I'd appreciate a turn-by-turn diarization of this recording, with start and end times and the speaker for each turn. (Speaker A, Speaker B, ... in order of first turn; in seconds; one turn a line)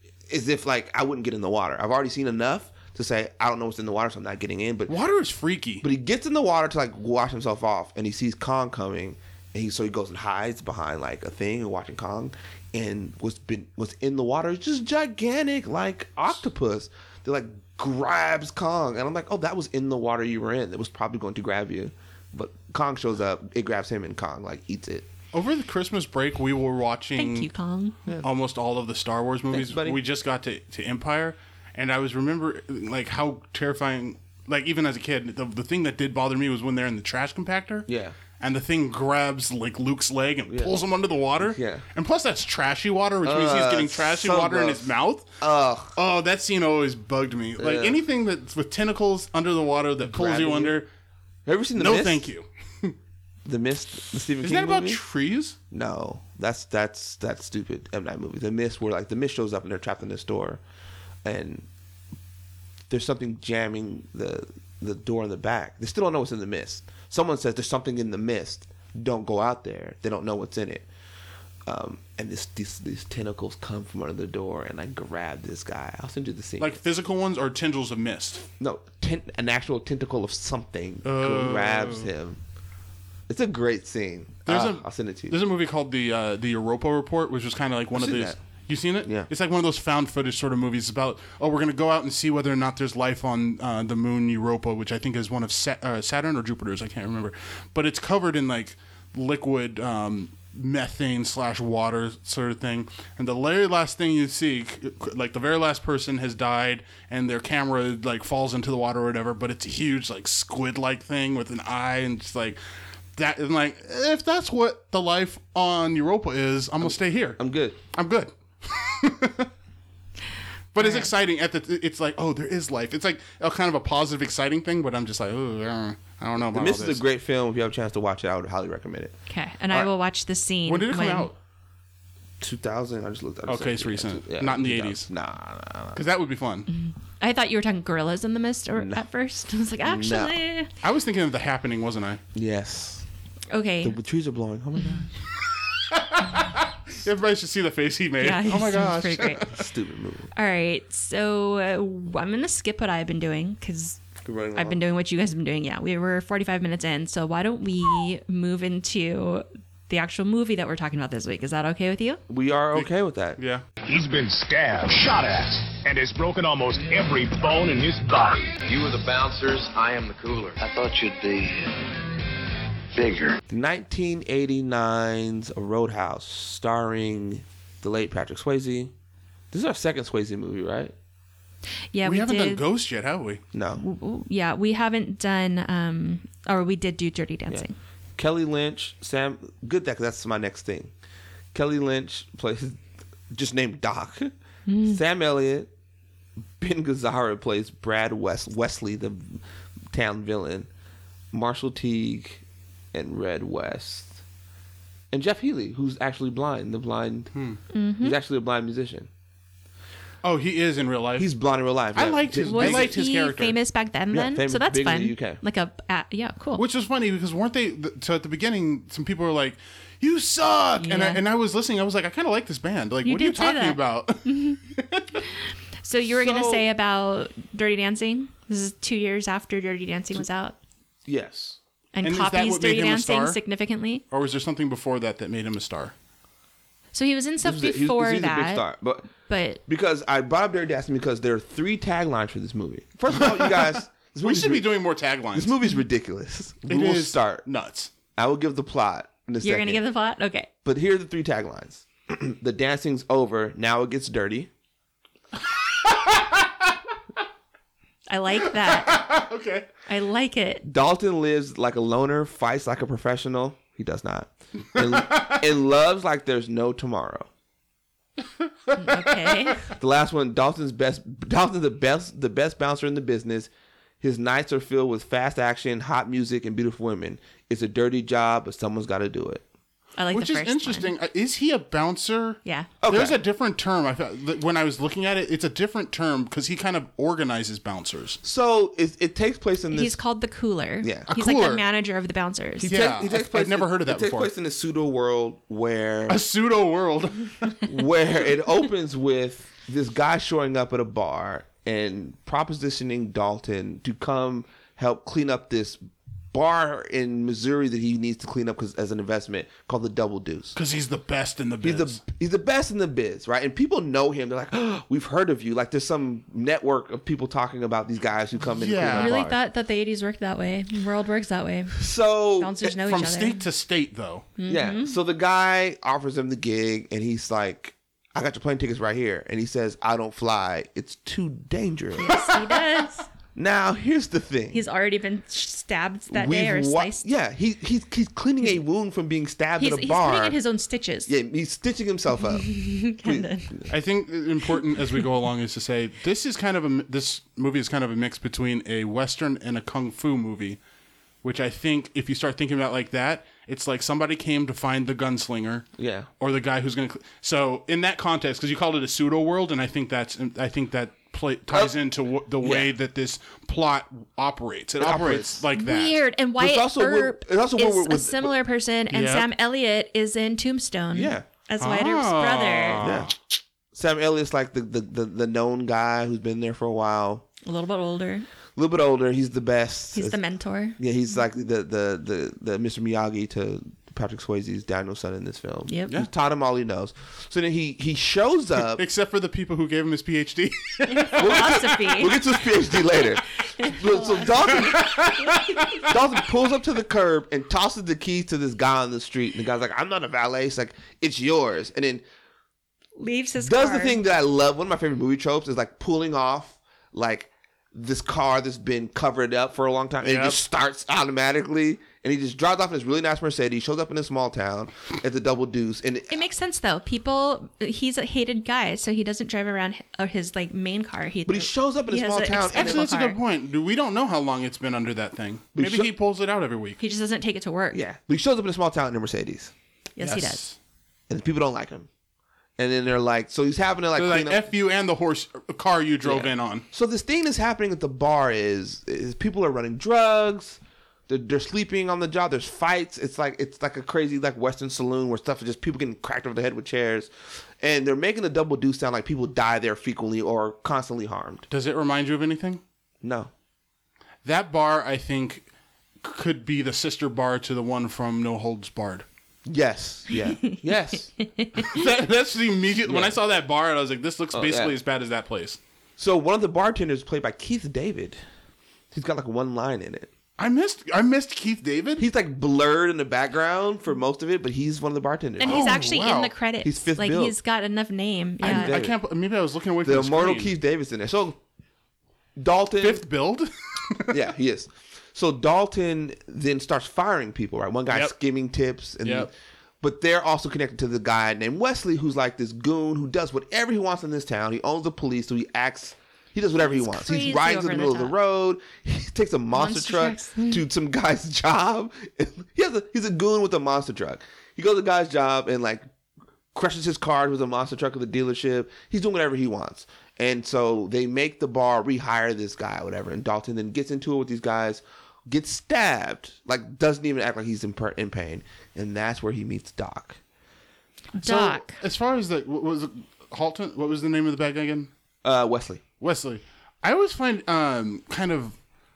Speaker A: 0.3-4.9
Speaker B: 4.9-5.8
Speaker A: 5.8-25.1
Speaker B: 25.3-27.5
Speaker C: 27.2-27.9
Speaker B: 28.2-37.9
Speaker A: 29.5-30.0
Speaker A: 37.9-38.2
Speaker B: 38.4-45.3
Speaker A: 40.5-40.8
Speaker A: 41.4-41.8
Speaker A: 43.2-46.0
Speaker B: 45.9-50.9
Speaker A: 47.6-48.0
Speaker A: 50.0-50.8
Speaker A: 51.5-52.3
Speaker B: 51.8-52.9
Speaker A: 53.4-55.0
Speaker B: 54.4-55.6
Speaker A: 55.7-60.6
Speaker A: 61.2-61.7
Speaker A: 62.9-70.9
Speaker A: 71.6-76.8
Speaker B: 76.6-78.5
Speaker A: 78.6-82.4
Speaker B: 81.0-82.1
Speaker A: 83.3-85.4
Speaker B: 84.5-112.6
Speaker A: 87.9-88.4
Speaker A: 89.0-89.3
Speaker B: 113.2-117.4
Speaker A: 116.8-117.8
Speaker B: 117.9-119.5
Speaker B: 120.7-127.0
Speaker C: 120.8-121.1
Speaker A: 126.4-129.1
Speaker C: 129.3-131.3
Speaker B: 130.7-131.3
Speaker A: 132.4-136.0
Speaker B: 133.4-135.1
Speaker B: 135.9-136.7
Speaker C: 136.7-140.7
Speaker A: 138.7-139.0
Speaker A: 139.8-140.4
Speaker B: 140.8-142.2
Speaker A: 142.3-143.0
Speaker C: 143.5-144.0
Speaker A: 143.8-145.1
Speaker B: 145.9-149.6
Speaker C: 148.2-149.4
Speaker A: 149.5-150.3
Speaker C: 150.3-154.0
Speaker A: 154.2-154.8
Speaker C: 154.5-162.2
Speaker A: 162.3-163.4
Speaker B: 162.7-163.6
Speaker D: 163.9-168.6
Speaker E: 168.6-171.8
Speaker E: 172.9-173.4
Speaker A: 173.5-178.9
Speaker A: 179.5-180.9
Speaker C: 181.9-182.6
Speaker B: 182.0-183.4
Speaker A: 183.5-183.8
Speaker C: 183.8-187.7
Speaker A: 187.5-190.9
Speaker A: 191.5-192.8
Speaker A: 193.3-194.3
Speaker C: 194.7-195.0
Speaker A: 194.8-195.7
Speaker A: 196.6-200.7
Speaker A: 201.3-202.4
Speaker A: 202.9-204.2
Speaker A: 205.1-207.3
Speaker B: 207.3-207.6
Speaker C: 207.7-208.2
Speaker A: 208.0-209.1
Speaker B: 210.2-211.3
Speaker A: 211.2-213.0
Speaker B: 211.9-213.5
Speaker C: 212.4-216.6
Speaker A: 214.1-215.4
Speaker B: 216.6-225.2
Speaker C: 220.8-221.2
Speaker C: 223.0-224.6
Speaker C: 225.8-230.6
Speaker A: 226.1-226.7
Speaker A: 231.1-231.6
Speaker C: 231.9-234.0
Speaker B: 232.0-233.4
Speaker B: 234.1-235.9
Speaker C: 236.9-238.6
Speaker A: 237.4-239.1
Speaker C: 239.2-239.6
Speaker A: 239.7-244.7
Speaker B: 243.1-245.5
Speaker A: 245.3-247.4
Speaker B: 246.7-247.9
Speaker A: 248.2-249.8
Speaker C: 249.4-250.5
Speaker A: 250.6-254.5
Speaker B: 255.7-256.7
Speaker C: 258.1-259.1
Speaker B: 258.5-259.7
Speaker C: 259.9-260.6
Speaker A: 260.6-267.3
Speaker B: 264.8-265.4
Speaker B: 268.7-269.5
Speaker C: 268.8-269.7
Speaker A: 269.7-273.5
Speaker A: 274.0-279.4
Speaker C: 280.0-280.9
Speaker B: 280.1-288.2
Speaker C: 282.4-282.7
Speaker A: 282.8-283.2
Speaker A: 288.2-290.0
Speaker C: 289.7-292.8
Speaker A: 290.8-291.1
Speaker B: 291.1-291.6
Speaker A: 292.6-296.2
Speaker B: 292.6-294.3
Speaker B: 296.1-297.7
Speaker A: 297.6-305.8
Speaker A: 306.3-310.6
Speaker B: 310.5-312.0
Speaker A: 311.6-319.4
Speaker B: 318.5-319.2
Speaker C: 318.9-321.8
Speaker A: 321.7-322.7
Speaker C: 322.4-323.4
Speaker B: 322.8-324.3
Speaker C: 324.4-324.9
Speaker A: 324.5-332.3
Speaker C: 331.9-333.1
Speaker A: 333.3-334.6
Speaker C: 334.5-337.0
Speaker A: 336.1-340.4
Speaker C: 339.6-341.1
Speaker A: 341.1-343.7
Speaker C: 342.2-343.5
Speaker B: 343.7-350.6
Speaker B: 351.2-355.6
Speaker A: 355.8-356.1
Speaker B: 356.2-366.0
Speaker A: 361.5-361.7
Speaker A: 362.4-362.7
Speaker A: 364.8-365.4
Speaker C: 365.5-372.8
Speaker A: 366.4-368.3
Speaker B: 368.9-369.3
Speaker A: 370.9-371.2
Speaker B: 371.6-373.1
Speaker A: 372.8-373.1
Speaker A: 373.7-377.2
Speaker C: 377.4-378.3
Speaker A: 378.6-380.2
Speaker C: 379.9-380.8
Speaker A: 380.8-388.8
Speaker B: 388.7-391.6
Speaker C: 390.9-392.4
Speaker A: 391.2-395.1
Speaker C: 393.6-395.9
Speaker B: 394.5-395.9
Speaker A: 395.8-402.0
Speaker C: 403.0-404.0
Speaker A: 403.4-416.2
Speaker B: 410.0-410.4
Speaker C: 416.1-423.2
Speaker A: 421.2-422.9
Speaker B: 422.5-426.8
Speaker A: 425.5-425.9
Speaker C: 426.8-427.8
Speaker A: 427.7-429.5
Speaker C: 430.0-430.4
Speaker B: 430.0-430.6
Speaker A: 431.1-431.9
Speaker A: 432.6-434.4
Speaker B: 433.9-436.6
Speaker A: 436.0-451.5
Speaker B: 451.5-452.6
Speaker A: 453.0-453.3
Speaker B: 454.2-455.4
Speaker B: 456.0-459.1
Speaker A: 459.4-461.1
Speaker C: 460.1-460.6
Speaker C: 461.2-461.8
Speaker B: 461.6-465.6
Speaker A: 462.9-463.2
Speaker A: 464.3-464.8
Speaker A: 466.0-468.2
Speaker A: 468.9-470.1
Speaker B: 470.4-472.0
Speaker A: 472.0-475.9
Speaker C: 475.4-478.8
Speaker B: 475.4-476.3
Speaker A: 476.6-477.3
Speaker A: 478.4-478.9
Speaker B: 478.4-480.5
Speaker A: 479.8-481.4
Speaker A: 482.4-483.0
Speaker B: 482.8-484.2
Speaker A: 484.1-505.9
Speaker B: 489.0-489.3
Speaker C: 496.6-498.1
Speaker C: 499.5-500.6
Speaker A: 506.5-520.2
Speaker C: 521.1-521.8
Speaker B: 521.2-524.9
Speaker A: 525.2-525.8
Speaker B: 526.0-528.5